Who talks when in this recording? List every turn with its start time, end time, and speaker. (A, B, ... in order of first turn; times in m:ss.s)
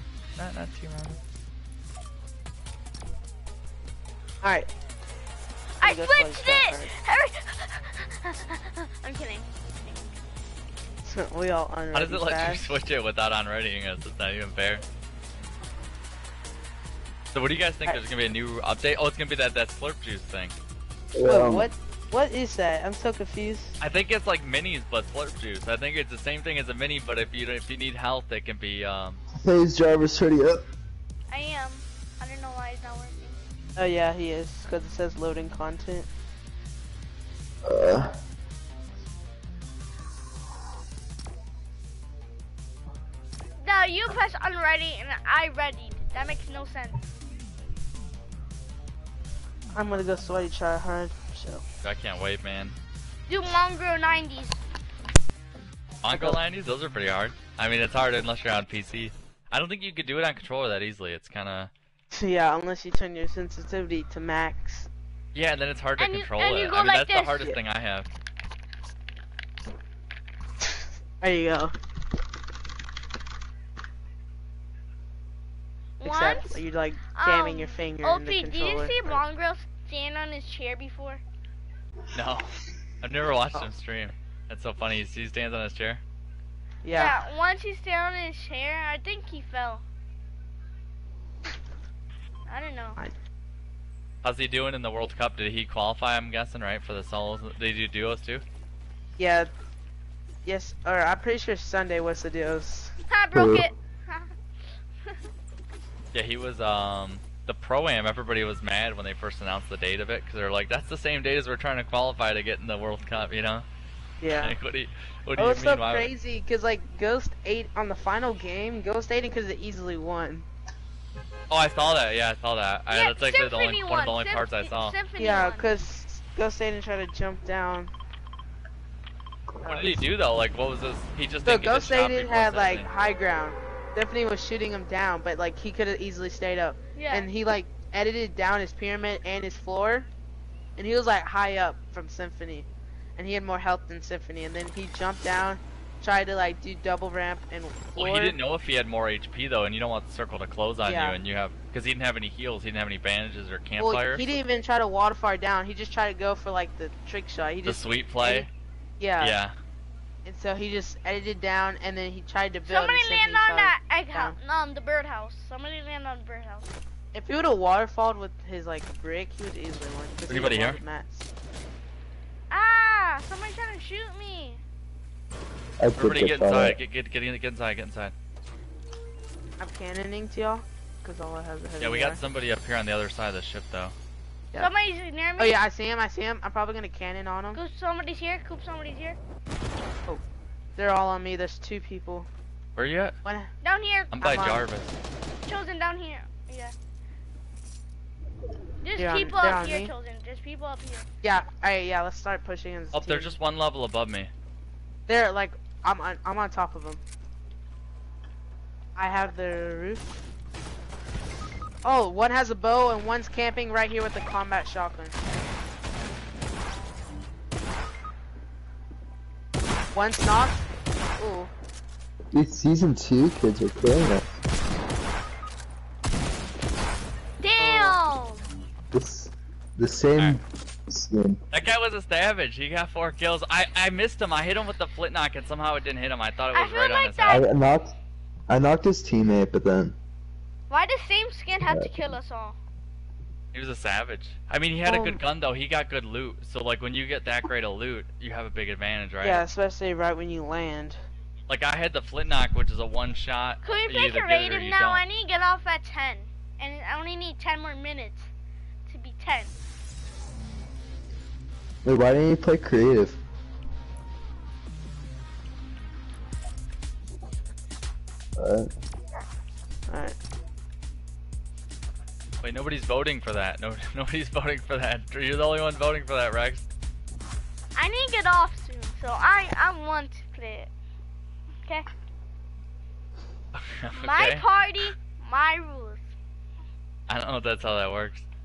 0:00.4-0:01.2 A
0:04.4-0:04.7 B
0:05.8-0:10.0 C
0:05.8-0:06.9 B
0:11.0-0:12.8 B
0:11.9-0:14.8 A
0:17.3-0:20.6 A
0:21.2-0:21.7 D
0:21.3-0:23.8 B
0:23.8-0:29.2 A
0:29.3-0:30.6 D
0:31.3-0:33.4 C
0:33.8-0:36.1 B
0:37.6-0:38.2 D
0:43.6-0:47.0 C
0:49.7-0:51.6 B
0:51.8-0:52.8 A
0:53.3-0:54.6 C
0:56.0-1:01.7 A
0:56.1-0:56.4 B
1:02.1-1:04.9 B
1:05.3-1:08.1 A
1:06.0-1:07.6 C
1:11.2-1:11.7 B
1:16.0-1:16.6 C
1:16.0-1:19.2 B
1:17.1-1:21.2 C
1:22.1-1:26.0 A
1:26.8-1:27.2 B
1:26.9-1:29.8 C
1:32.5-1:33.0 C
1:34.2-1:38.4 A
1:39.2-1:39.5 B
1:40.4-1:42.9 B
1:43.1-1:44.3 C
1:43.3-1:43.7 D
1:46.1-1:53.6 A
1:54.2-1:54.6 B
1:54.4-1:56.1 A
1:55.4-2:00.5 B
2:01.5-2:05.0 A
2:02.9-2:05.7 C
2:05.2-2:07.9 B
2:09.6-2:10.0 B
2:09.6-2:12.9 A
2:11.5-2:20.1 B
2:17.0-2:17.3 C
2:20.8-2:28.4 B
2:28.0-2:34.3 A
2:30.8-2:31.2 B
2:33.8-2:38.5 B
2:37.7-2:38.5 A
2:39.0-2:39.4 B
2:39.2-2:39.6 A
2:40.2-2:44.4 B
2:42.7-2:46.7 C
2:47.1-2:51.3 B
2:50.3-2:50.8 A
2:52.5-2:54.6 C
2:55.8-2:56.8 D
2:56.0-2:58.1 A
2:59.6-3:02.2 B
3:01.8-3:04.0 A
3:04.6-3:05.6 C
3:05.4-3:07.6 B
3:07.5-3:09.2 C
3:10.8-3:12.3 B
3:12.8-3:13.2 A
3:13.2-3:13.5 B
3:13.6-3:14.2 C
3:14.1-3:15.0 A
3:14.2-3:14.6 B
3:15.5-3:16.7 C
3:18.8-3:21.1 C
3:19.0-3:19.9 B
3:21.2-3:23.4 B
3:22.9-3:24.3 A
3:25.1-3:27.0 B
3:29.0-3:30.2 B
3:31.8-3:35.2 B
3:39.9-3:40.6 B
3:41.2-3:41.5 B
3:42.3-3:44.4 D
3:47.4-3:48.4 C
3:47.6-3:48.0 B
3:48.9-3:51.4 D
3:51.5-3:57.4 A
3:56.5-3:57.5 C
3:57.3-3:58.0 D
3:58.5-4:00.0 D
4:00.7-4:02.6 C
4:01.6-4:02.2 D
4:03.5-4:09.4 A
4:04.8-4:05.2 B
4:09.2-4:11.0 B
4:11.5-4:15.0 A
4:13.6-4:18.3 C
4:18.9-4:19.5 C
4:21.8-4:23.2 D
4:28.4-4:28.7 D
4:29.9-4:30.2 B
4:32.4-4:36.7 A
4:37.8-4:40.7 C
4:43.6-4:44.4 A
4:44.0-4:46.0 C
4:47.1-4:48.3 A